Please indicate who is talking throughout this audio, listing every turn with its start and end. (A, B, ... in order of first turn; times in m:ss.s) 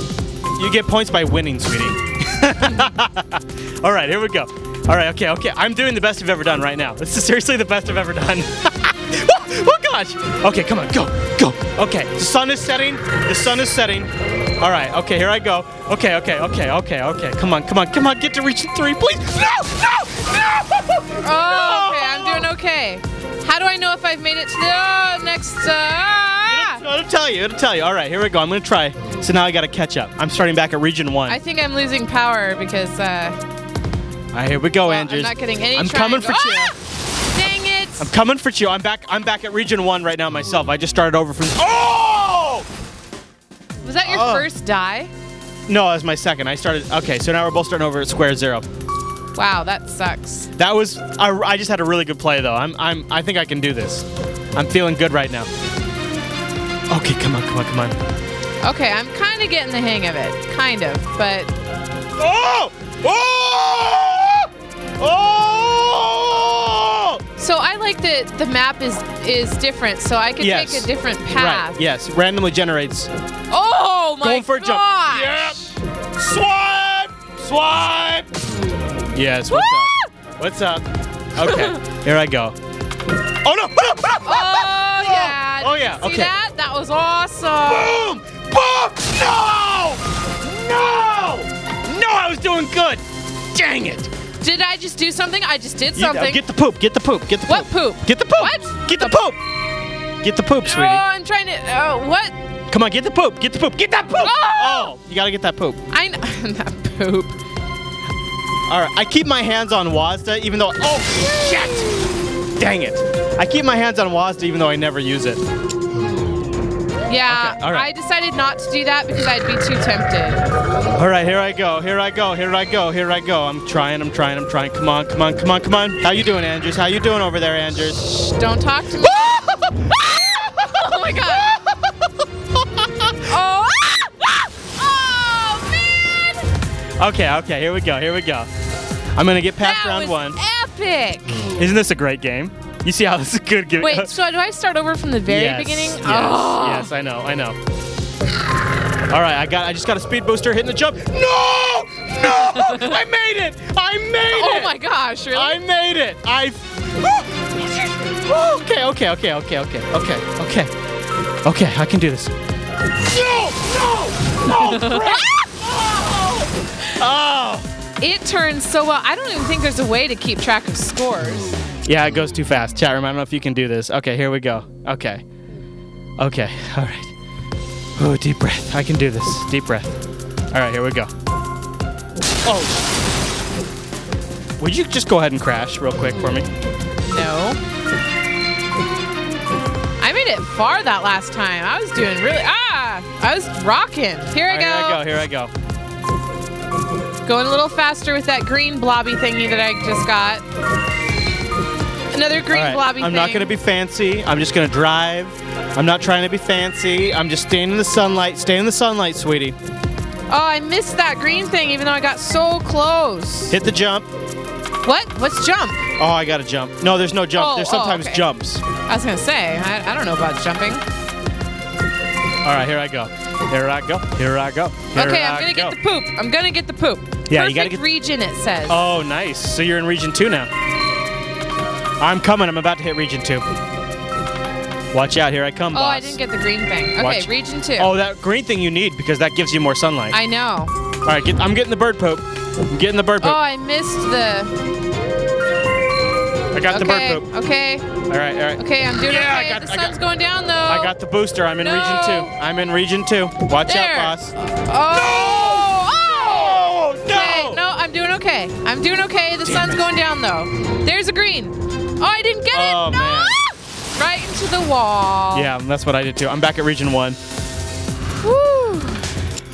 0:00.6-0:22.5 A
0:21.2-0:26.8 B
0:26.5-0:31.4 A
0:31.3-0:33.4 B
0:34.3-0:36.7 A
0:34.8-0:36.7 B
0:37.3-0:38.1 B
0:38.0-0:42.7 A
0:43.8-0:45.1 B
0:44.0-0:44.5 A
0:45.7-0:48.6 A
0:49.3-0:50.5 B
0:50.6-0:55.5 A
0:56.9-0:58.0 A
0:58.6-1:01.5 B
1:02.2-1:07.2 A
1:07.4-1:11.8 B
1:10.4-1:13.1 A
1:13.5-1:15.6 B
1:14.2-1:18.3 A
1:19.1-1:22.6 A
1:19.5-1:20.1 B
1:21.4-1:21.8 B
1:23.4-1:26.3 A
1:24.2-1:28.2 B
1:27.6-1:34.1 A
1:34.4-1:36.4 B
1:36.0-1:39.4 A
1:37.5-1:39.2 B
1:40.2-1:41.0 A
1:40.6-1:42.4 B
1:42.7-1:45.8 A
1:44.2-1:44.9 B
1:45.9-1:47.4 B
1:48.7-1:51.9 A
1:52.6-1:55.4 A
1:57.1-2:00.4 B
1:57.3-1:57.9 A
2:00.9-2:08.0 A
2:08.0-2:09.4 B
2:09.0-2:13.2 A
2:10.1-2:11.5 B
2:13.2-2:16.5 B
2:17.0-2:18.5 A
2:19.1-2:20.4 A
2:19.6-2:21.4 B
2:21.6-2:24.1 A
2:23.8-2:26.9 B
2:25.3-2:27.6 A
2:29.1-2:34.7 A
2:32.4-2:33.0 B
2:34.3-2:35.6 B
2:35.3-2:40.7 A
2:41.4-2:42.3 A
2:43.0-2:47.7 A
2:44.5-2:45.2 B
2:48.0-2:51.5 B
2:51.8-2:55.2 A
2:56.2-2:57.1 A
2:58.0-3:00.0 A
3:00.5-3:01.1 A
3:02.4-3:02.8 A
3:04.6-3:06.5 A
3:07.0-3:07.6 B
3:10.0-3:15.0 B
3:14.5-3:15.5 A
3:17.2-3:20.4 B
3:22.1-3:23.5 B
3:22.5-3:29.6 A
3:30.3-3:33.6 B
3:33.5-3:34.1 A
3:34.8-3:35.9 B
3:36.0-3:38.6 A
3:37.3-3:38.2 B
3:38.9-3:40.8 B
3:42.4-3:45.8 A
3:44.9-3:48.9 B
3:47.3-3:47.8 A
3:48.7-3:50.5 A
3:52.0-3:53.4 A
3:54.9-3:56.2 A
3:55.7-3:57.9 B
3:57.0-4:00.2 A
4:00.1-4:00.7 B
4:01.0-4:03.4 A
4:03.2-4:04.6 B
4:06.5-4:07.3 A
4:06.7-4:08.0 B
4:08.1-4:10.0 A
4:08.6-4:10.9 B
4:10.6-4:14.3 A
4:11.6-4:12.3 B
4:13.7-4:25.5 B
4:14.9-4:17.6 A
4:19.4-4:19.8 A
4:22.5-4:23.4 A
4:25.3-4:27.2 A
4:28.2-4:29.1 B